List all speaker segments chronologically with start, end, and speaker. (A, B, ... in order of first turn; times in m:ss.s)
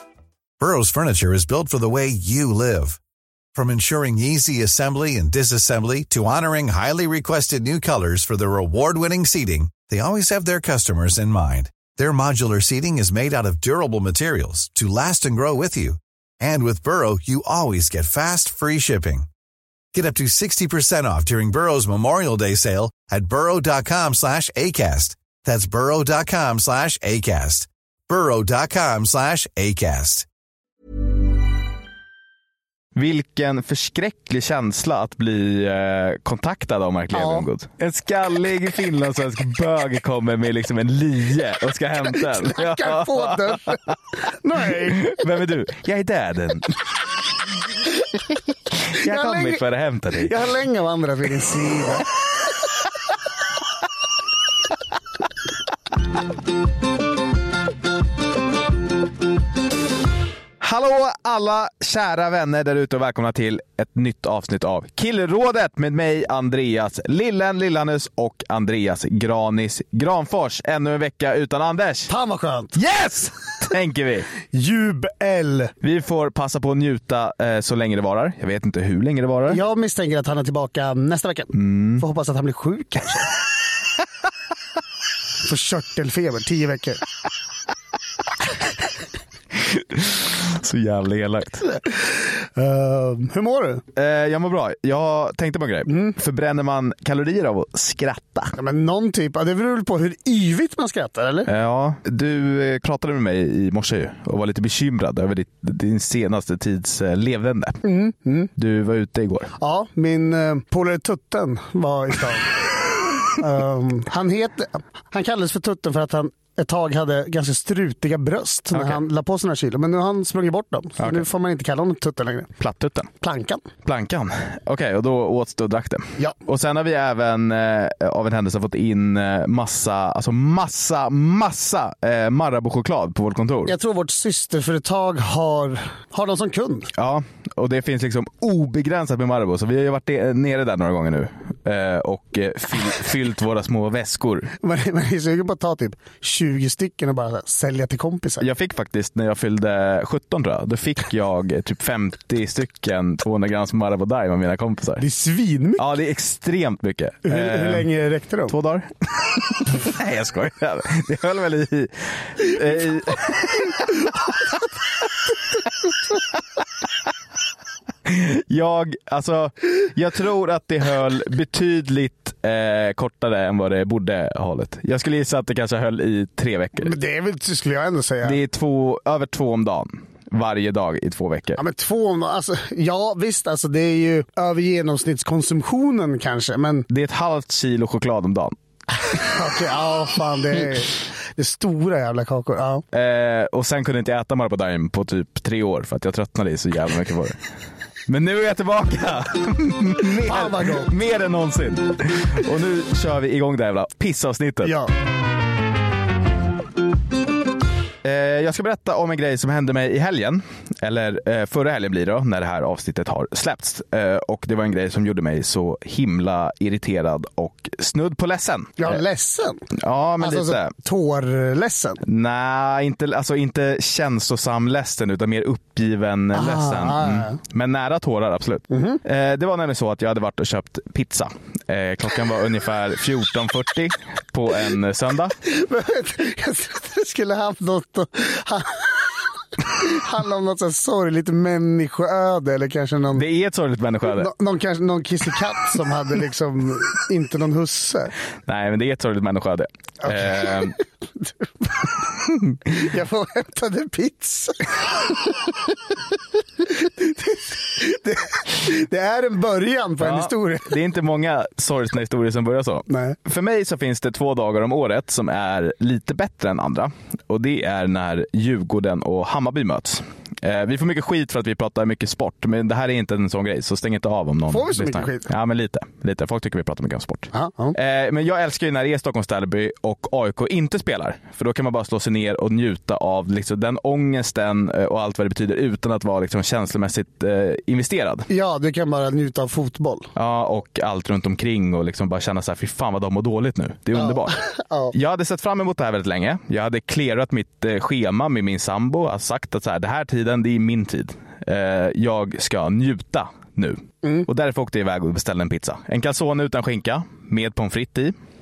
0:00.6-0:03.0 A
0:03.5-0:19.3 A
0:19.9-0:30.3 A
0:33.0-0:43.8 B
0:37.1-0:37.5 C
0:42.2-0:45.2 C
0:44.9-0:46.8 B
0:48.9-0:50.3 B
0:49.0-0:49.6 C
0:50.2-0:52.1 C
1:00.6-1:12.1 B
1:12.1-1:12.8 C
1:12.8-1:14.3 B
1:14.5-1:15.7 C
1:15.8-1:19.6 B
1:19.5-1:23.3 C
1:21.5-1:22.0 B
1:25.4-1:27.0 C
1:29.6-1:31.7 B
1:32.6-1:33.8 C
1:34.0-1:38.5 B
1:35.9-1:36.1 C
1:38.6-1:41.5 C
1:41.5-1:47.8 B
1:47.8-1:48.5 C
1:48.6-1:49.5 B
1:49.6-1:52.6 C
1:53.3-2:02.5 C
1:58.7-1:59.0 B
2:01.0-2:01.2 B
2:02.6-2:03.1 B
2:03.2-2:03.6 C
2:03.8-2:13.7 B
2:13.7-2:16.9 C
2:17.0-2:24.5 B
2:24.6-2:28.4 C
2:28.4-2:35.0 B
2:35.0-2:35.8 C
2:35.8-2:37.9 B
2:37.2-2:38.6 C
2:38.5-2:43.9 B
2:48.1-2:56.9 B
2:56.8-2:58.4 C
2:58.2-3:01.6 B
3:01.6-3:06.9 C
3:06.9-3:08.6 B
3:09.1-3:12.8 C
3:12.9-3:17.4 B
3:18.1-3:24.7 B
3:20.2-3:20.9 C
3:24.6-3:24.9 C
3:28.0-3:39.0 B
3:38.8-3:39.6 C
3:39.8-3:40.7 B
3:40.2-3:42.0 C
3:42.0-3:55.4 B
3:46.3-3:47.4 C
3:48.7-3:49.0 C
3:55.5-3:59.0 C
3:59.7-4:03.2 C
4:03.1-4:04.3 B
4:04.1-4:08.1 C
4:08.5-4:10.7 B
4:10.0-4:10.6 C
4:11.6-4:11.9 C
4:12.6-4:14.7 C
4:16.9-4:20.8 C
4:20.0-4:48.3 B
4:22.9-4:23.2 C
4:34.5-4:35.3 C
4:37.3-4:37.8 C
4:48.3-4:50.1 C
4:50.2-4:54.4 B
4:53.9-4:54.9 C
4:54.9-5:08.2 B